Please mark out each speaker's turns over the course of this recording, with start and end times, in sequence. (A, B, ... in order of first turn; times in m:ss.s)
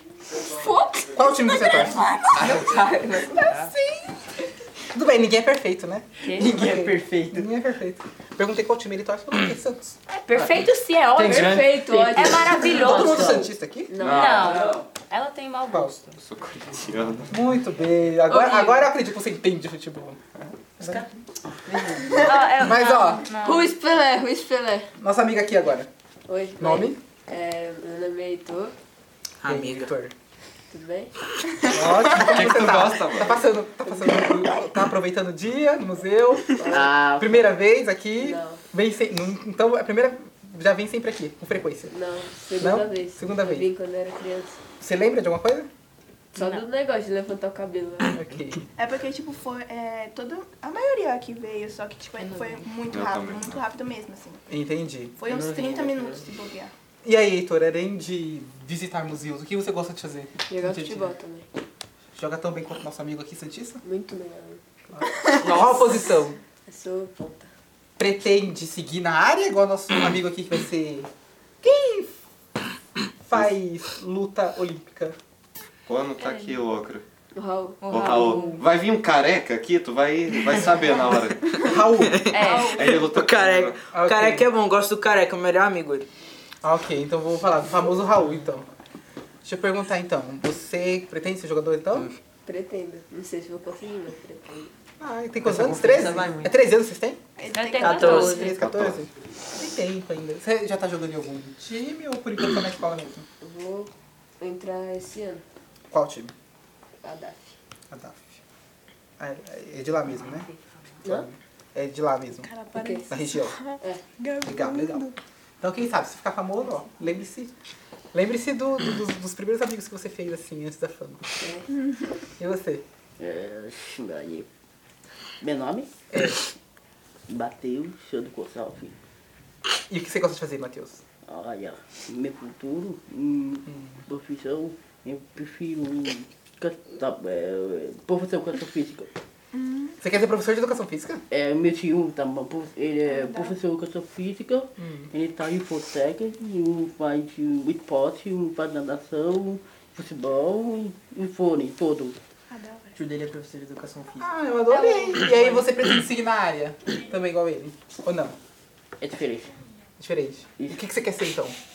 0:00.4-0:02.6 A
0:01.1-0:02.6 B
0:01.3-0:02.6 C
0:02.4-0:03.7 D
0:03.3-0:03.8 B
0:04.9-0:10.0 B
0:06.2-0:06.7 D
0:06.3-0:07.5 E
0:10.1-0:13.5 D
0:11.2-0:11.7 E
0:11.2-0:13.3 A
0:12.0-0:13.5 F
0:12.6-0:14.0 B
0:13.9-0:14.7 A
0:14.0-0:14.5 G
0:14.0-0:16.2 D
0:14.4-0:14.8 E
0:16.2-0:17.5 G
0:17.3-0:21.0 B
0:18.3-0:18.9 A
0:20.8-0:21.1 E
0:21.6-0:22.2 E
0:22.0-0:23.3 B
0:22.1-0:23.7 D
0:23.4-0:24.9 A
0:25.0-0:25.9 B
0:26.3-0:28.7 A
0:26.6-0:27.0 B
0:29.4-0:29.9 H
0:29.4-0:30.1 B
0:30.7-0:31.1 A
0:31.6-0:41.9 B
0:31.8-0:33.4 G
0:33.9-0:34.5 A
0:36.6-0:36.9 A
0:36.7-0:37.5 F
0:38.2-0:38.6 A
0:41.9-0:44.6 A
0:42.6-0:43.7 B
0:44.8-0:45.7 B
0:46.3-0:48.2 A
0:46.4-0:46.7 D
0:48.1-0:48.6 B
0:48.8-0:54.4 C
0:52.2-0:52.7 D
0:52.9-0:53.6 G
0:54.5-0:55.2 B
0:55.2-0:56.7 C
0:55.3-0:56.2 E
0:57.0-1:01.1 B
1:00.5-1:01.5 A
1:02.2-1:03.8 B
1:03.8-1:04.6 A
1:04.9-1:06.4 B
1:05.2-1:05.7 C
1:05.3-1:06.0 A
1:06.7-1:07.5 A
1:08.0-1:11.1 B
1:11.6-1:12.1 B
1:13.3-1:15.2 B
1:15.9-1:17.0 G
1:16.2-1:16.6 D
1:17.4-1:18.1 A
1:17.8-1:18.6 D
1:17.9-1:21.7 G
1:18.3-1:18.6 B
1:21.6-1:22.3 B
1:22.0-1:26.1 H
1:22.3-1:23.0 D
1:22.4-1:22.9 C
1:22.6-1:23.8 G
1:23.9-1:24.5 B
1:26.6-1:28.7 B
1:29.4-1:32.1 B
1:32.4-1:34.7 A
1:35.0-1:37.2 B
1:35.4-1:36.6 E
1:37.4-1:38.4 C
1:37.5-1:38.6 D
1:37.8-1:38.3 H
1:37.9-1:43.3 B
1:38.5-1:39.0 G
1:43.4-1:45.4 A
1:45.9-1:46.3 B
1:47.0-1:47.5 A
1:47.9-1:48.4 B
1:49.2-1:50.5 B
1:50.1-1:50.7 D
1:51.0-1:52.5 B
1:52.4-1:55.2 C
1:52.8-1:53.1 A
1:53.1-1:53.6 B
1:54.4-1:57.5 B
1:58.1-2:01.3 B
2:01.4-2:01.7 A
2:01.7-2:02.1 C
2:02.4-2:02.8 B
2:03.2-2:04.5 F
2:05.4-2:06.3 F
2:06.1-2:06.4 B
2:07.3-2:09.0 F
2:09.9-2:11.0 B
2:11.3-2:19.1 F
2:13.7-2:14.0 B
2:19.5-2:20.0 C
2:20.0-2:21.2 B
2:21.3-2:32.2 F
2:23.1-2:23.6 C
2:24.8-2:25.1 B
2:32.5-2:33.0 C
2:33.0-2:34.3 E
2:34.2-2:38.4 B
2:34.7-2:35.6 D
2:39.0-2:39.5 F
2:40.0-2:41.6 B
2:40.6-2:40.8 F